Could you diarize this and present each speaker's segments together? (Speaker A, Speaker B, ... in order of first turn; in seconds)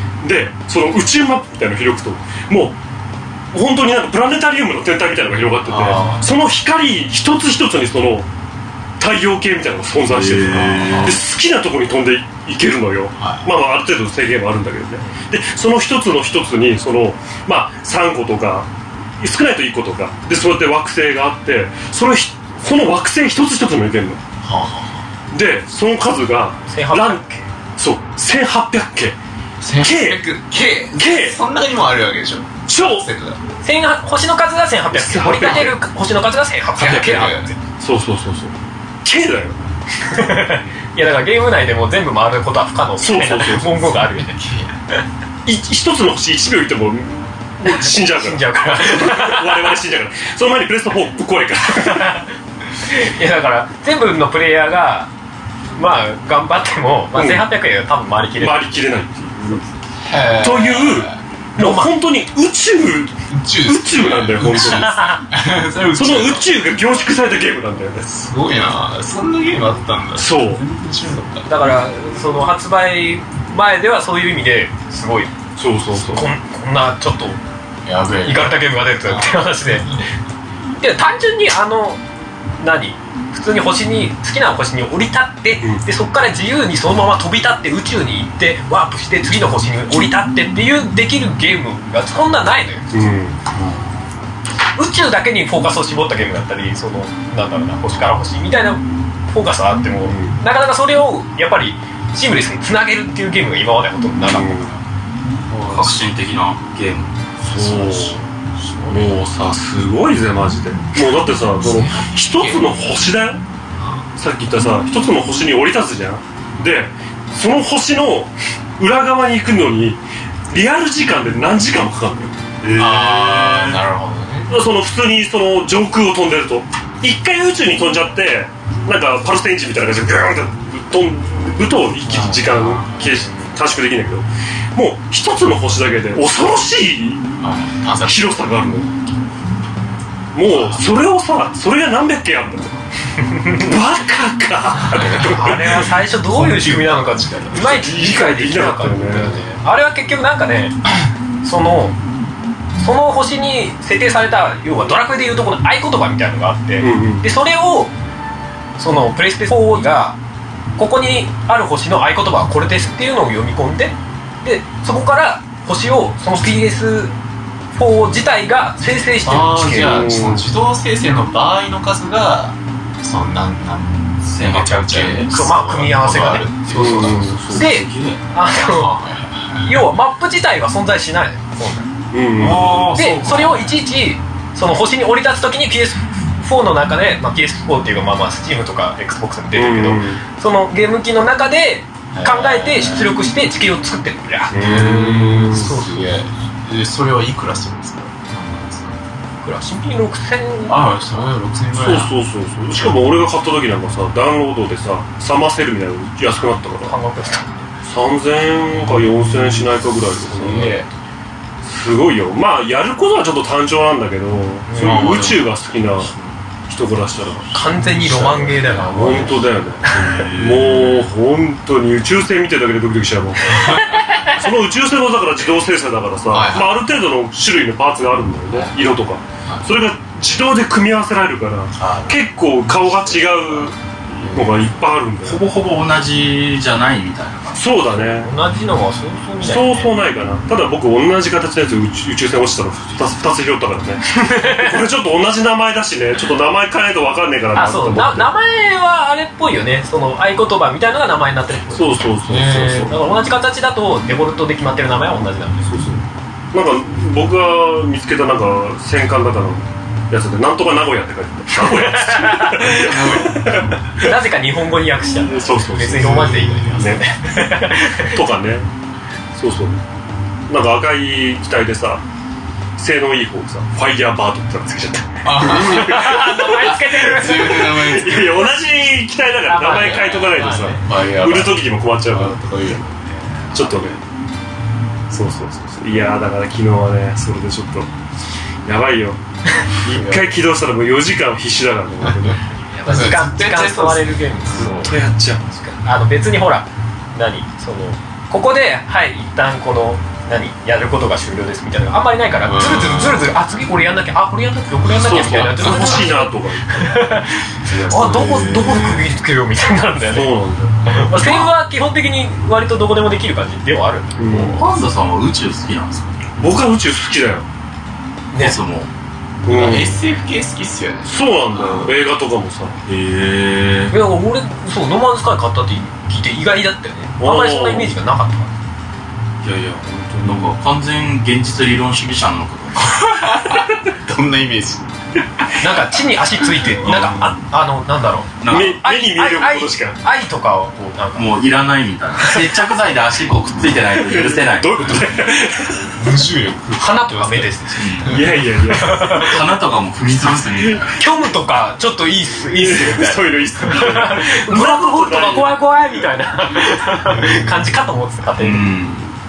Speaker A: 0.2-2.8, 3.5-8.3, 9.0-18.7, 19.2-24.2, 25.3-27.2, 27.8-29.2, 29.8-30.2, 30.9-31.4, 32.7-33.1, 34.9-35.8, 36.8-39.6, 43.0-43.8, 45.5-52.2, 57.1-57.5, 58.4-59.7, 60.4-65.2, 65.9-68.1, 70.2-70.6, 75.6-76.3, 92.9-93.4, 100.1-100.4, 104.2-104.7, 107.4-108.2, 108.9-113.4, 114.2-122.3, 124.5-137.3, 138.0-138.9, 140.3-142.8, 143.4-145.9, 147.5-149.4, 156.8-157.2, 169.8-170.5, 176.7-177.7, 182.1-182.8, 189.5-190.2, 194.5-195.8, 201.7-206.9, 207.9-210.8, 211.6-216.1, 216.7-217.5, 218.3-235.4, 237.6-238.3, 239.4-248.3, 251.7-252.9, 255.7-264.1, 265.1-267.1, 268.0-268.7, 269.4-269.8, 270.5-272.0, 272.8-276.3, 277.2-282.4, 283.5-284.0, 285.1-287.9, 288.7-292.4, 294.5-295.4, 304.9-307.1, 310.1-311.4, 314.2-314.6, 316.4-317.5, 319.4-320.0, 321.1-322.8, 327.2-327.9, 329.9-330.5, 338.5-340.0, 344.0-345.9, 348.1-349.4, 352.5-355.6
Speaker B: 5.7-6.3, 10.5-11.2, 13.2-13.5, 24.4-25.1, 29.6-33.4, 36.8-37.5, 44.0-44.8, 60.0-61.2, 63.3-66.5, 68.1-71.5, 77.8-80.0, 105.5-106.1, 107.5-109.2, 111.5-113.0, 122.7-124.6, 132.0-133.2, 137.4-138.4, 140.5-140.8, 144.9-145.4, 146.3-147.7, 169.2-177.4, 178.6-179.9, 182.4-183.8, 192.1-193.1, 194.5-199.0, 200.7-202.1, 208.7-210.9, 214.8-215.5, 216.0-216.4, 217.8-219.2, 219.9-220.6, 223.7-224.0, 226.3-226.8, 228.5-228.8, 231.8-232.2, 232.7-234.7, 252.3-252.9, 262.6-263.8, 265.9-267.0, 275.2-278.5, 279.7-284.0, 289.9-290.4, 292.0-294.9, 302.4-303.3, 305.0-306.1, 319.5-321.1, 332.9-334.9, 336.8-337.1, 345.9-348.4, 357.1-357.7
Speaker C: 10.1-11.2, 105.7-107.2, 122.6-123.8, 174.3-175.3, 177.4-178.2, 219.9-221.0, 235.2-237.7, 307.6-309.0, 314.3-316.3, 318.4-318.9, 321.5-321.9, 322.9-324.0, 329.4-333.1, 336.9-337.3, 338.4-338.8, 341.2-345.1, 347.8-348.2, 348.9-350.9, 358.4-359.1
Speaker D: 26.7-27.4, 33.6-37.6, 40.1-44.4, 47.7-49.7, 51.8-52.3, 52.8-55.1, 55.8-58.8, 61.6-61.9, 71.5-75.3, 75.9-77.4, 78.2-80.0, 80.8-82.0, 82.6-93.1, 94.8-104.6, 145.1-150.8, 151.4-152.0, 152.8-157.9, 158.8-160.2, 160.8-167.2, 167.7-170.0, 175.3-178.9, 179.6-181.9, 182.9-194.6, 195.5-196.1, 199.4-201.1, 206.9-207.7, 214.7-215.2, 217.5-219.5, 237.9-239.9, 244.2-244.7, 247.6-252.1, 252.9-255.7, 261.6-263.1, 263.9-268.2, 275.5-277.6, 279.5-280.8, 292.7-295.0, 295.5-310.3, 310.9-314.6, 318.3-318.6, 323.9-328.5, 335.6-341.3, 346.8-348.1, 348.8-349.4, 350.9-358.7